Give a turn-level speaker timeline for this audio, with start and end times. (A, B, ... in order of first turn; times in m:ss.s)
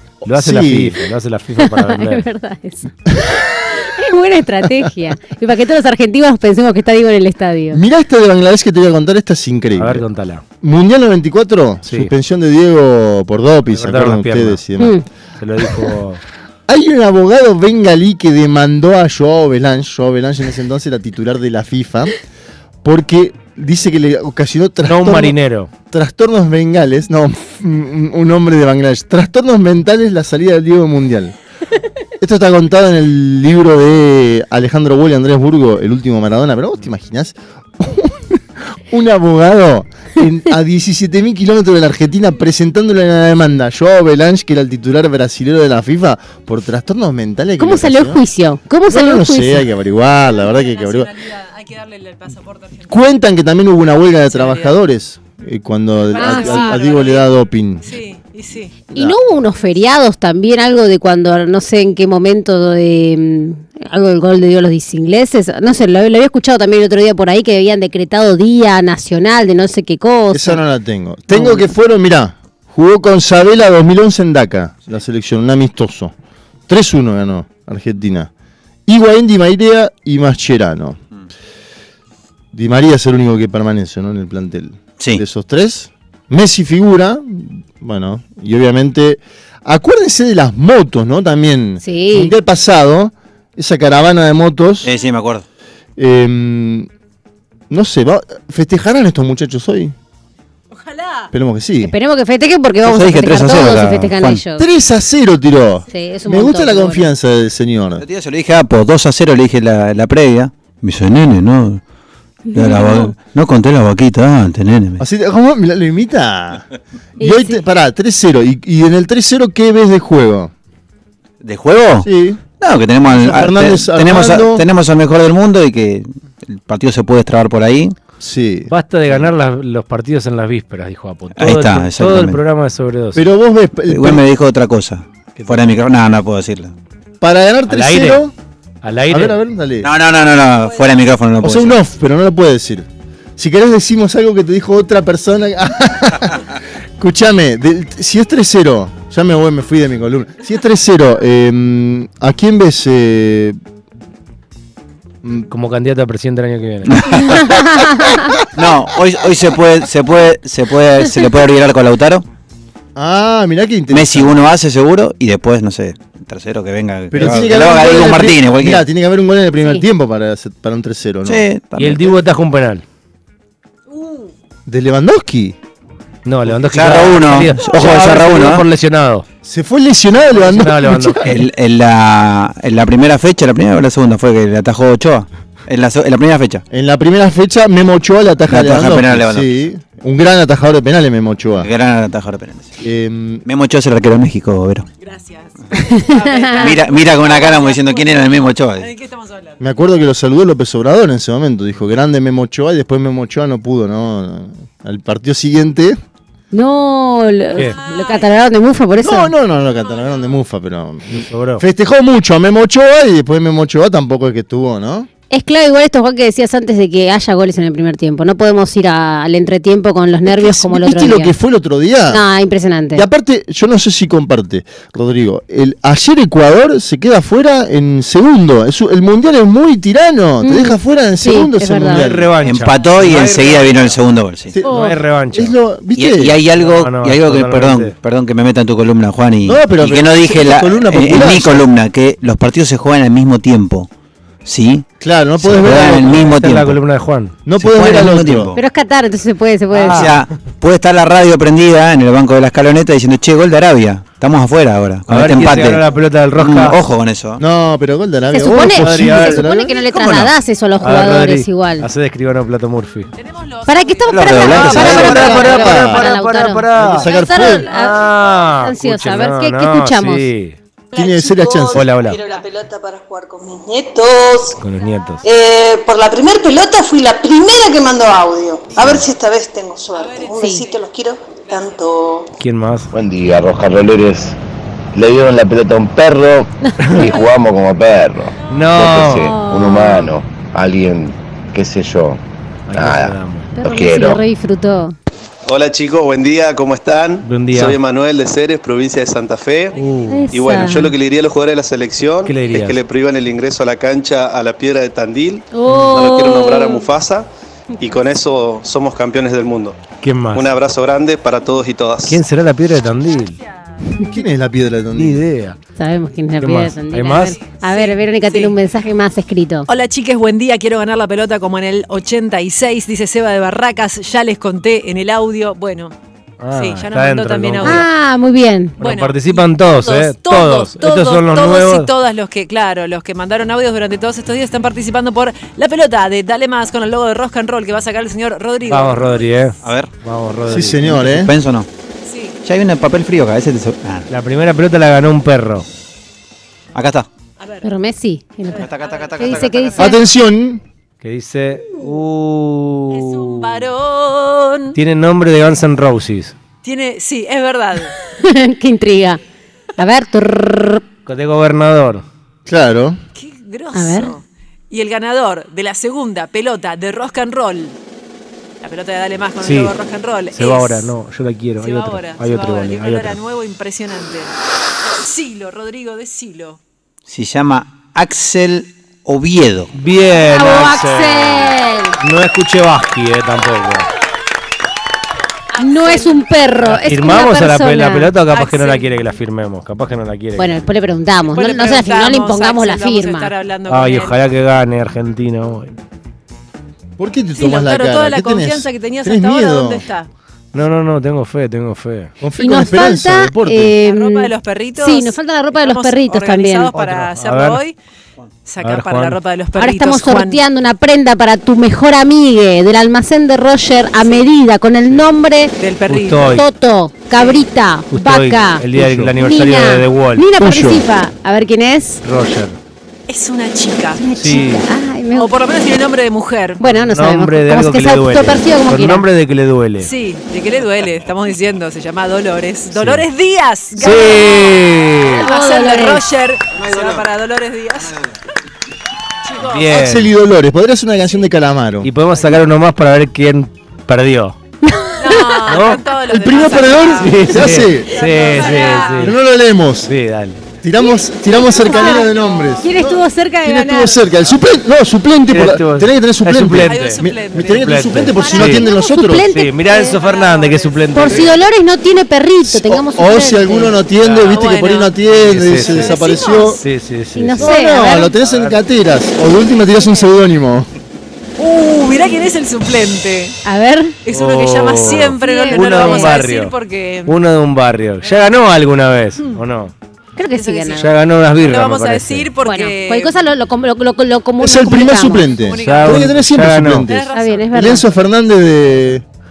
0:00.2-0:01.0 A
0:00.2-0:02.2 B
0:01.6-0:07.8 C
0:07.7-0:10.0 A
0:09.8-0:10.4 B
0:10.6-0:15.0 A
0:11.8-0:12.1 B
0:13.7-0:14.6 B
0:14.8-0:15.0 C
0:15.4-0:16.2 B
0:16.7-0:22.2 A
0:22.8-0:25.4 A
0:24.8-0:25.7 B
0:25.9-0:31.3 A
0:32.2-0:48.2 A
0:47.6-0:49.6 C
0:48.9-0:51.1 A
0:50.5-0:52.9 D
0:52.9-0:57.8 A
0:54.3-0:54.8 D
0:56.1-0:56.8 C
0:56.1-0:57.3 D
0:57.8-0:58.7 D
0:58.9-1:10.6 C
1:10.3-1:16.1 A
1:11.3-1:11.6 C
1:16.7-1:18.3 A
1:18.8-1:21.0 A
1:22.5-1:34.9 A
1:31.8-1:32.3 C
1:34.8-1:35.4 E
1:36.0-1:36.9 A
1:37.7-1:39.9 A
1:40.7-1:41.3 D
1:41.3-1:41.9 A
1:41.8-1:44.6 C
1:42.8-1:44.4 E
1:44.6-1:48.0 A
1:45.9-1:47.1 C
1:48.0-1:51.8 E
1:52.5-1:53.1 C
1:52.5-1:55.0 E
1:55.0-2:00.5 A
1:57.2-1:57.6 C
2:01.4-2:02.1 E
2:02.0-2:02.4 A
2:02.6-2:08.0 E
2:03.1-2:04.6 A
2:08.2-2:09.2 A
2:08.7-2:13.2 B
2:11.4-2:12.4 E
2:13.1-2:14.2 A
2:13.9-2:16.7 E
2:15.4-2:15.7 B
2:17.2-2:18.3 A
2:17.7-2:18.2 B
2:18.8-2:19.4 B
2:19.1-2:19.9 A
2:19.8-2:21.8 E
2:21.4-2:22.8 A
2:23.4-2:33.6 A
2:35.2-2:35.5 A
2:35.5-2:36.9 B
2:36.9-2:42.2 E
2:37.3-2:37.8 C
2:37.4-2:38.4 A
2:42.9-2:44.3 A
2:43.9-2:48.8 E
2:47.1-2:51.4 A
2:51.2-2:52.0 E
2:51.8-2:52.8 B
2:54.7-2:55.6 A
2:56.2-2:59.2 B
2:56.5-2:58.7 E
2:59.4-3:01.4 A
3:00.4-3:01.4 B
3:01.2-3:06.6 E
3:06.7-3:11.7 A
3:08.5-3:09.6 E
3:11.6-3:12.7 E
3:12.8-3:13.4 A
3:13.4-3:14.9 E
3:15.0-3:19.6 D
3:15.7-3:16.7 C
3:16.5-3:18.9 E
3:19.6-3:26.0 A
3:26.5-3:29.3 C
3:27.5-3:27.8 B
3:27.7-3:28.5 D
3:29.0-3:35.1 A
3:31.2-3:31.6 B
3:35.3-3:41.3 C
3:40.2-3:42.2 A
3:42.1-3:43.0 C
3:42.9-3:52.3 A
3:50.4-3:52.1 C
3:52.1-3:53.9 B
3:52.4-3:54.5 E
3:54.5-3:56.4 A
3:54.6-3:55.0 C
3:54.7-3:55.5 B
3:56.0-4:03.9 E
3:56.5-3:58.0 B
3:59.4-4:01.7 A
4:04.4-4:04.8 E
4:05.0-4:06.4 A
4:05.4-4:06.8 E
4:05.6-4:07.3 B
4:07.4-4:08.5 A
4:07.6-4:08.6 E
4:08.5-4:10.1 C
4:09.7-4:10.2 B
4:09.8-4:17.4 E
4:15.1-4:16.8 B
4:17.4-4:19.9 A
4:18.3-4:21.9 C
4:18.7-4:19.5 B
4:20.8-4:23.1 B
4:23.1-4:25.1 D
4:23.6-4:30.3 C
4:24.1-4:25.5 E
4:24.5-4:26.1 A
4:25.0-4:27.1 B
4:26.7-4:27.7 A
4:27.3-4:28.5 D
4:27.7-4:30.6 B
4:30.9-4:34.6 F
4:30.9-4:32.0 A
4:31.7-4:32.3 B
4:34.5-4:35.3 B
4:35.2-4:42.3 F
4:38.7-4:39.1 B
4:39.9-4:40.8 D
4:40.3-4:40.7 C
4:41.4-4:41.9 D
4:42.3-4:42.9 B
4:42.9-4:44.4 G
4:44.9-4:54.2 G
4:46.7-4:47.2 C
4:46.8-4:47.1 B
4:48.5-4:49.4 B
4:49.2-4:50.1 C
4:52.7-4:53.6 B
4:53.6-4:55.0 C
4:55.4-5:07.3 H
4:57.2-4:57.8 B
4:59.7-5:00.2 B
5:00.1-5:00.9 C
5:02.2-5:02.8 B
5:05.5-5:06.9 C
5:07.8-5:12.2 H
5:09.9-5:10.5 B
5:12.0-5:13.4 B
5:14.0-5:15.2 A
5:14.9-5:15.6 B
5:15.8-5:19.7 C
5:16.4-5:17.3 B
5:17.1-5:18.6 D
5:19.7-5:25.9 D
5:26.4-5:27.8 B
5:26.5-5:27.9 D
5:27.6-5:28.8 C
5:28.8-5:31.9 B
5:28.8-5:39.4 D
5:38.7-5:41.0 B
5:39.6-5:39.9 E
5:40.4-5:41.3 A
5:40.9-5:41.7 E
5:42.0-5:42.4 D
5:42.4-5:44.1 E
5:44.1-5:45.6 B
5:46.7-5:47.1 E
5:47.4-5:47.7 D
5:47.6-5:50.0 C
5:48.5-5:49.8 D
5:48.5-5:49.7 E
5:49.8-5:50.6 A
5:51.0-5:53.6 B
5:52.9-5:54.8 D
5:54.7-5:56.4 B
5:56.6-5:57.9 D
5:58.2-5:59.2 C
5:59.8-6:00.8 C
6:01.0-6:02.0 B
6:02.4-6:03.0 A
6:03.1-6:07.8 D
6:03.7-6:04.1 C
6:08.6-6:10.9 D
6:09.4-6:09.8 B
6:10.3-6:13.2 B
6:11.6-6:14.3 D
6:15.0-6:16.6 D
6:17.0-6:19.7 E
6:19.7-6:23.9 B
6:20.1-6:22.0 C
6:25.5-6:26.2 D
6:25.6-6:28.1 C
6:26.5-6:30.7 B
6:28.2-6:29.0 D
6:30.4-6:33.3 C
6:31.2-6:34.2 D
6:33.7-6:35.7 B
6:37.0-6:39.8 A
6:37.3-6:40.1 D
6:40.5-6:42.1 B
6:42.2-6:43.7 A
6:42.4-6:46.7 C
6:43.8-6:47.8 D
6:46.7-6:47.6 B
6:48.4-6:50.4 D
6:48.6-6:49.2 B
6:49.5-6:55.6 C
6:54.0-6:54.2 D
6:54.8-6:55.2 B
6:55.6-6:56.4 D
6:55.8-6:56.5 B
6:56.3-7:02.0 C
6:57.1-6:57.4 D
6:57.9-7:00.3 B
6:58.8-6:59.1 A
7:00.4-7:00.8 A
7:02.0-7:02.6 B
7:03.1-7:04.1 D
7:03.9-7:05.3 C
7:04.1-7:04.7 B
7:05.1-7:06.7 D
7:06.6-7:09.0 C
7:06.7-7:09.9 B
7:09.8-7:14.6 D
7:12.7-7:13.1 B
7:13.8-7:15.2 B
7:15.0-7:16.0 C
7:15.1-7:18.0 D
7:19.2-7:19.8 D
7:19.4-7:20.1 B
7:19.7-7:21.9 A
7:21.8-7:24.4 B
7:24.6-7:25.8 C
7:25.0-7:29.1 D
7:25.5-7:25.8 B
7:26.1-7:28.0 A
7:26.9-7:29.2 B
7:28.9-7:29.9 A
7:29.8-7:30.4 B
7:30.6-7:39.3 A
7:30.8-7:34.1 C
7:35.3-7:37.0 B
7:36.6-7:38.4 D
7:37.7-7:41.4 B
7:38.4-7:40.0 C
7:39.6-7:41.3 D
7:40.9-7:43.8 C
7:42.4-7:46.6 A
7:43.9-7:44.5 B
7:44.2-7:45.0 D
7:45.1-7:46.0 B
7:45.7-7:46.6 D
7:46.5-7:48.6 B
7:47.2-7:48.1 C
7:47.4-7:50.7 A
7:51.4-7:53.4 D
7:53.4-7:54.0 C
7:54.0-7:57.2 D
7:54.1-7:56.5 B
7:55.2-7:56.2 C
7:57.1-7:59.7 B
7:58.0-7:58.5 D
7:59.1-7:59.4 D
8:00.2-8:00.9 C
8:00.3-8:03.1 D
8:00.8-8:02.3 B
8:02.4-8:05.3 C
8:04.4-8:09.0 A
8:05.3-8:06.0 D
8:05.6-8:07.0 B
8:06.8-8:07.9 D
8:07.1-8:07.9 C